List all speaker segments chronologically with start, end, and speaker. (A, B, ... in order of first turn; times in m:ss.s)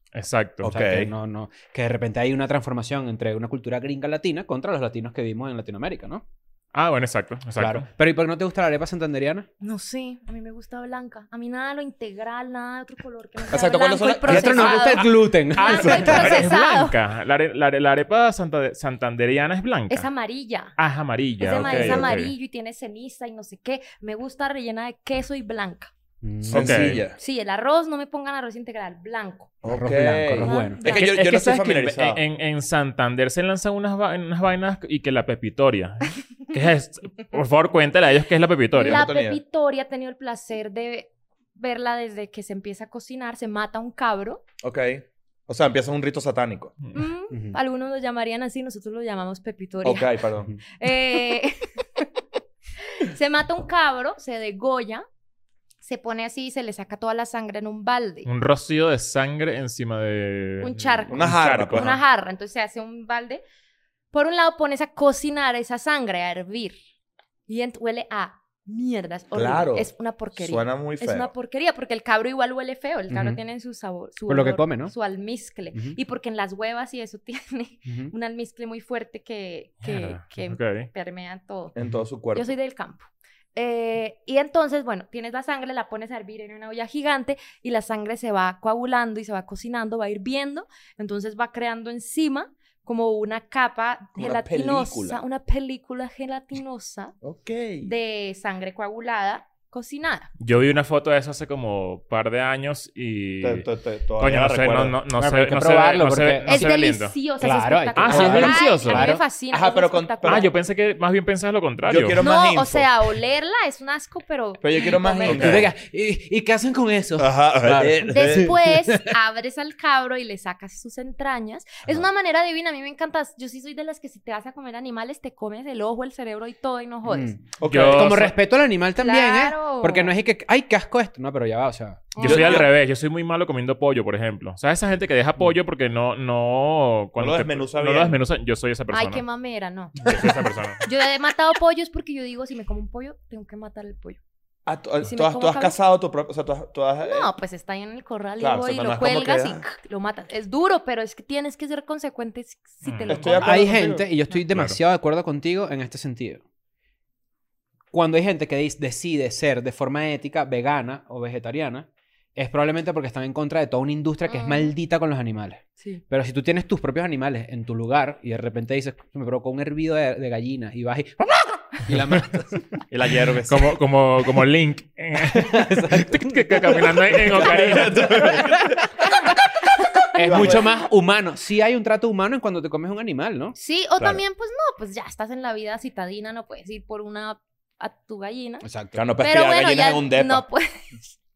0:00.1-0:00.7 A
0:00.6-0:01.1 B
0:00.6-0:06.2 C
0:06.7-0:07.9 A
0:07.6-0:09.5 C
0:09.6-0:17.0 D
0:13.5-0:15.1 B
0:14.2-0:16.4 C
0:15.7-0:16.2 B
0:15.8-0:20.1 A
0:19.9-0:20.8 D
0:20.8-0:22.3 A
0:21.4-0:25.9 D
0:21.6-0:22.0 B
0:26.2-0:27.0 C
0:26.4-0:27.2 B
0:26.5-0:27.0 A
0:27.1-0:29.5 D
0:29.6-0:32.2 B
0:29.7-0:30.8 C
0:30.4-0:31.1 D
0:30.8-0:39.0 A
0:38.7-0:44.4 D
0:38.8-0:39.4 B
0:44.6-0:46.8 B
0:46.9-0:50.2 D
0:47.3-0:47.6 C
0:49.8-0:50.5 B
0:50.8-0:52.1 D
0:52.9-0:55.1 D
0:55.8-0:58.3 D
0:58.2-1:02.0 A
1:00.6-1:03.4 D
1:01.1-1:02.0 B
1:04.1-1:06.8 D
1:07.5-1:21.8 D
1:09.3-1:11.3 B
1:13.1-1:13.4 C
1:14.3-1:14.9 C
1:17.9-1:18.1 C
1:19.8-1:20.9 A
1:21.8-1:22.5 B
1:22.3-1:37.2 D
1:34.2-1:35.2 B
1:37.2-1:37.9 B
1:37.8-1:40.3 D
1:40.4-1:43.7 A
1:43.4-1:45.5 B
1:44.2-1:47.2 A
1:45.4-1:46.7 C
1:46.4-1:50.5 D
1:47.4-1:49.2 C
1:48.0-1:49.1 A
1:48.2-1:48.6 B
1:49.5-1:50.5 B
1:50.2-1:52.2 A
1:51.9-1:52.9 B
1:52.2-1:55.5 D
1:54.6-1:55.7 B
1:55.3-1:55.7 A
1:55.3-1:59.1 C
1:57.2-1:58.5 B
1:58.0-2:07.4 D
2:07.0-2:12.2 C
2:07.6-2:08.2 B
2:07.7-2:08.3 A
2:09.0-2:10.1 D
2:12.1-2:12.7 D
2:12.2-2:19.2 A
2:12.2-2:12.7 B
2:17.2-2:18.2 B
2:18.9-2:20.2 D
2:20.0-2:20.8 A
2:20.8-2:24.2 D
2:24.7-2:27.3 B
2:25.1-2:25.8 D
2:27.0-2:33.7 D
2:28.4-2:29.6 B
2:32.9-2:33.2 A
2:33.1-2:34.0 B
2:33.4-2:36.4 C
2:34.5-2:34.8 A
2:37.9-2:52.8 C
2:44.3-2:44.7 D
2:52.9-2:53.8 B
2:53.5-2:58.5 A
2:55.2-2:58.8 C
2:57.3-2:58.8 B
2:59.8-3:00.6 D
3:00.2-3:03.6 C
3:00.2-3:00.8 B
3:03.6-3:08.7 D
3:08.6-3:09.0 C
3:08.9-3:10.4 B
3:09.2-3:11.1 D